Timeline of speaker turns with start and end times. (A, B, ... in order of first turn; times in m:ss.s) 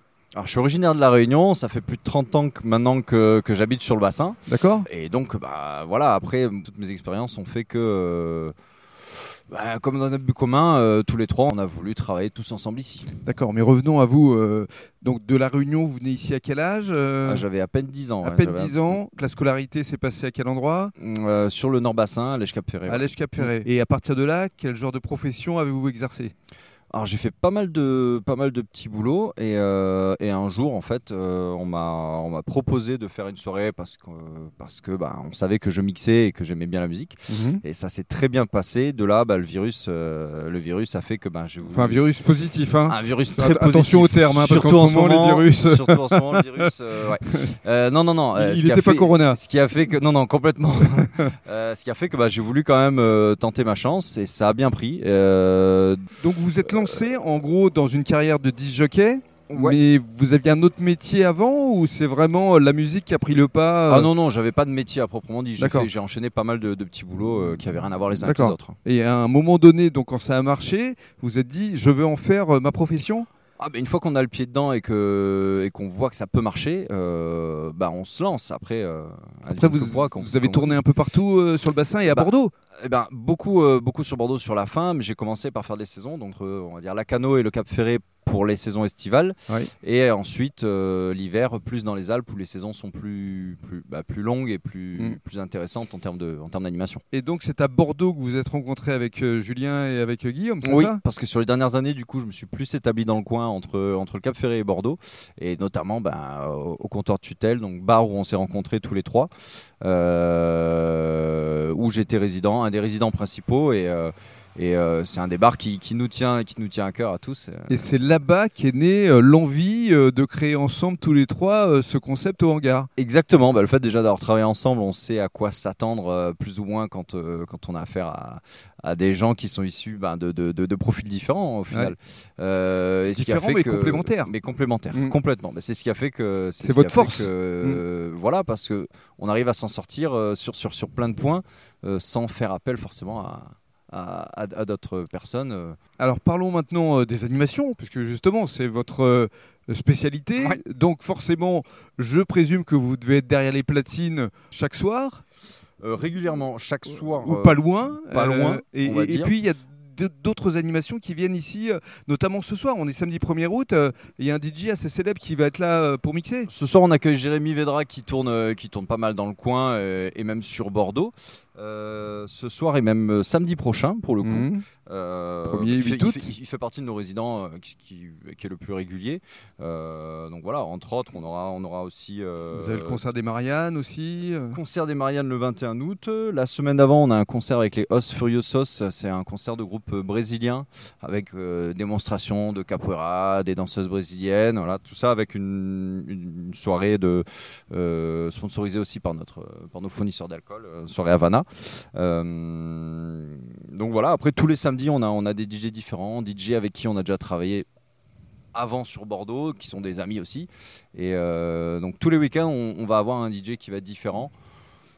0:00.3-0:08.5 A
0:04.5-0:04.9 B
0:09.5-0:13.1 A
0:13.2-0:17.4 B
0:17.2-0:19.0 A
0:18.2-0:20.9 B
0:21.0-0:23.5 A
0:22.9-0:26.3 B
0:26.9-0:42.0 A
0:37.3-0:37.6 B
0:41.7-0:46.7 B
0:42.9-0:56.1 A
0:48.3-0:49.4 B
0:56.2-1:04.1 B
0:59.5-0:59.8 A
1:03.9-1:08.8 A
1:05.6-1:05.9 B
1:08.2-1:13.3 B
1:13.6-1:20.8 A
1:19.5-1:22.5 B
1:22.8-1:37.0 A
1:37.1-1:41.0 B
1:40.6-1:57.8 A
1:57.7-2:02.9 B
2:03.0-2:25.8 A
2:13.1-2:14.3 B
2:16.6-2:17.8 B
2:26.0-2:35.2 B
2:35.8-2:39.3 A
2:37.2-2:46.5 B
2:46.5-3:03.0 A
2:54.2-2:54.6 B
2:55.4-2:56.3 B
3:02.5-3:04.6 B
3:04.5-3:27.7 A
3:28.5-3:34.3 A